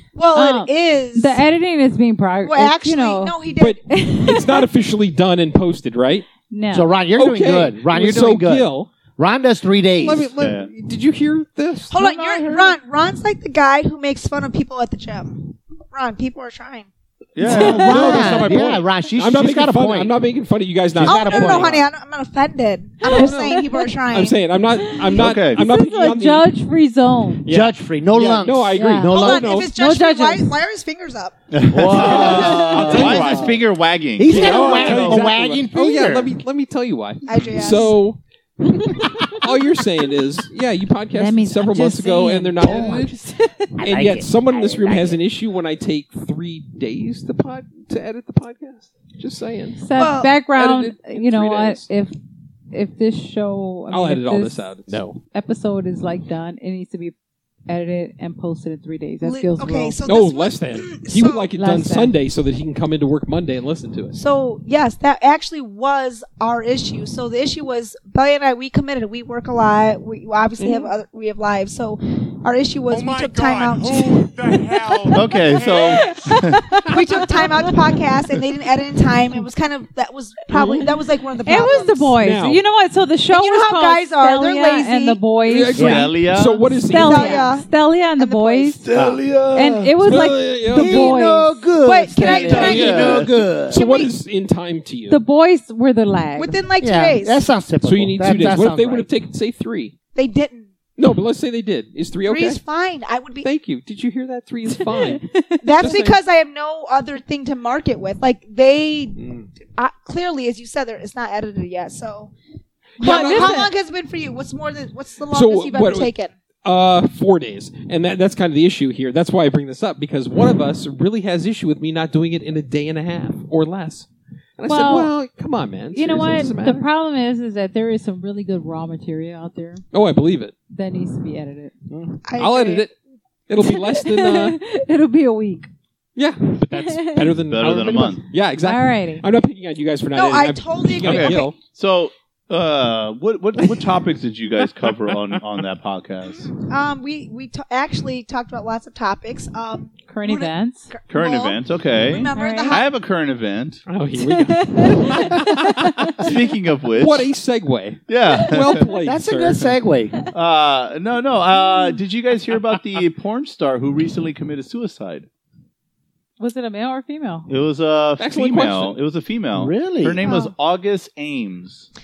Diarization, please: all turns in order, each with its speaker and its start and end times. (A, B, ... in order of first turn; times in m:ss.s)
0:00.1-0:01.4 A
0:00.3-0:03.3 B
0:02.4-0:03.8 A
0:03.6-0:06.3 C
0:03.9-0:04.7 B
0:06.5-0:06.9 B
0:06.7-0:10.3 D
0:07.2-0:08.9 C
0:10.0-0:12.8 C
0:10.4-0:10.7 E
0:11.9-0:16.9 A
0:17.4-0:18.4 E
0:17.4-0:18.0 B
0:17.5-0:21.8 C
0:17.5-0:20.2 D
0:20.9-0:21.8 D
0:21.0-0:24.4 A
0:23.0-0:23.8 B
0:23.0-0:26.5 C
0:24.8-0:27.4 B
0:25.1-0:25.6 E
0:27.4-0:29.8 C
0:27.5-0:29.5 D
0:28.7-0:30.5 B
0:29.1-0:31.4 A
0:31.5-0:35.3 E
0:31.7-0:33.6 D
0:31.8-0:33.4 C
0:32.3-0:33.0 B
0:34.2-0:36.3 D
0:34.2-0:38.2 C
0:37.2-0:38.0 A
0:38.8-0:43.1 C
0:41.1-0:43.5 B
0:42.6-0:43.1 D
0:43.8-0:49.9 C
0:43.8-0:45.2 D
0:49.8-0:52.1 B
0:50.0-0:50.4 A
0:50.5-0:51.9 C
0:52.7-0:57.1 B
0:53.9-0:55.2 C
0:57.7-1:00.0 B
0:59.2-1:01.5 A
1:00.0-1:04.2 C
1:01.6-1:02.1 B
1:04.1-1:14.3 A
1:10.6-1:10.9 C
1:12.9-1:16.2 F
1:15.1-1:16.6 E
1:15.8-1:17.7 B
1:16.9-1:22.2 A
1:20.5-1:20.9 C
1:21.4-1:26.0 B
1:22.2-1:22.6 C
1:23.3-1:25.2 A
1:25.4-1:27.5 C
1:25.7-1:26.1 D
1:25.8-1:26.7 E
1:26.8-1:28.8 B
1:26.9-1:28.8 A
1:28.8-1:29.9 E
1:28.9-1:29.2 D
1:29.5-1:31.7 B
1:30.0-1:31.1 C
1:30.7-1:33.8 D
1:31.8-1:33.2 A
1:32.2-1:33.4 E
1:32.5-1:35.2 C
1:33.8-1:34.1 A
1:35.1-1:36.6 B
1:36.4-1:37.5 A
1:36.8-1:39.1 D
1:37.8-1:39.9 C
1:40.1-1:40.7 A
1:41.0-1:42.6 C
1:42.2-1:43.5 A
1:43.4-1:46.2 C
1:44.9-1:45.9 B
1:45.6-1:52.3 A
1:53.0-1:53.7 C
1:53.0-1:53.7 B
1:53.0-1:56.3 A
1:55.3-2:06.8 C
2:04.7-2:05.1 B
2:05.9-2:09.8 B
2:09.9-2:10.5 C
2:10.7-2:11.7 B
2:11.9-2:12.2 D
2:12.2-2:12.9 A
2:12.4-2:12.9 C
2:13.5-2:14.6 C
2:13.6-2:15.7 B
2:16.2-2:21.6 C
2:16.6-2:17.4 B
2:17.5-2:18.2 E
2:18.6-2:19.2 B
2:20.1-2:21.5 A
2:21.0-2:26.5 E
2:24.8-2:25.4 C
2:26.4-2:32.8 A
2:30.1-2:30.9 B
2:31.1-2:33.8 E
2:32.3-2:32.8 B
2:33.9-2:36.3 C
2:34.2-2:36.2 B
2:36.2-2:37.3 E
2:37.0-2:39.8 C
2:38.1-2:38.9 E
2:39.0-2:40.2 D
2:40.3-2:45.3 E
2:46.4-2:47.5 B
2:47.5-2:51.9 E
2:48.2-2:49.0 C
2:49.5-2:50.2 D
2:50.2-2:50.5 A